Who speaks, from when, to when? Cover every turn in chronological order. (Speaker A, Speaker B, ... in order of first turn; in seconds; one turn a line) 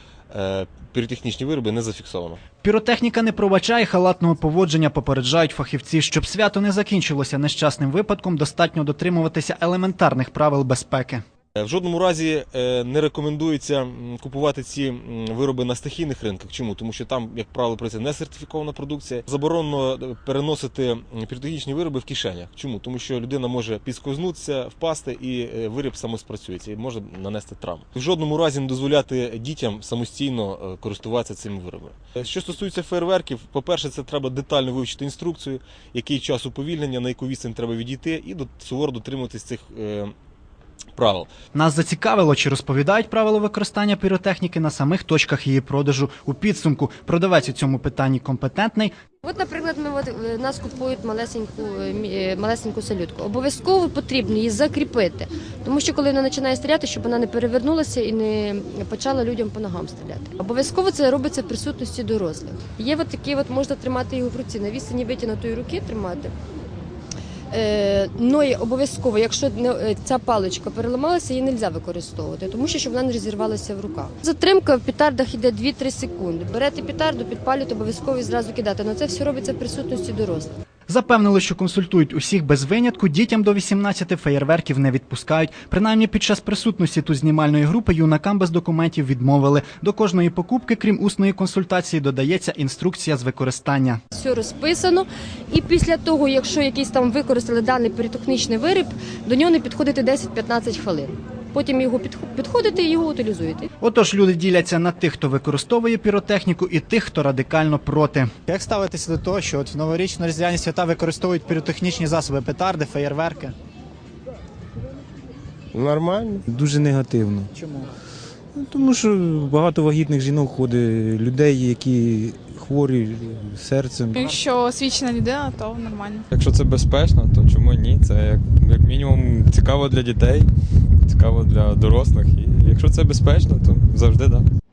Speaker A: 0.3-2.4
Speaker B: 2.6-11.2
Speaker A: 11.6-40.1
Speaker A: 40.9-41.3
Speaker B: 41.5-48.9
Speaker C: 49.2-66.3
Speaker C: 67.5-80.5
Speaker B: 80.9-94.0
Speaker C: 94.1-103.7
Speaker B: 103.8-113.5
Speaker D: 115.7-117.5
Speaker D: 118.5-124.3
Speaker E: 124.1-126.3
Speaker F: 126.3-130.5
Speaker F: 131.0-134.5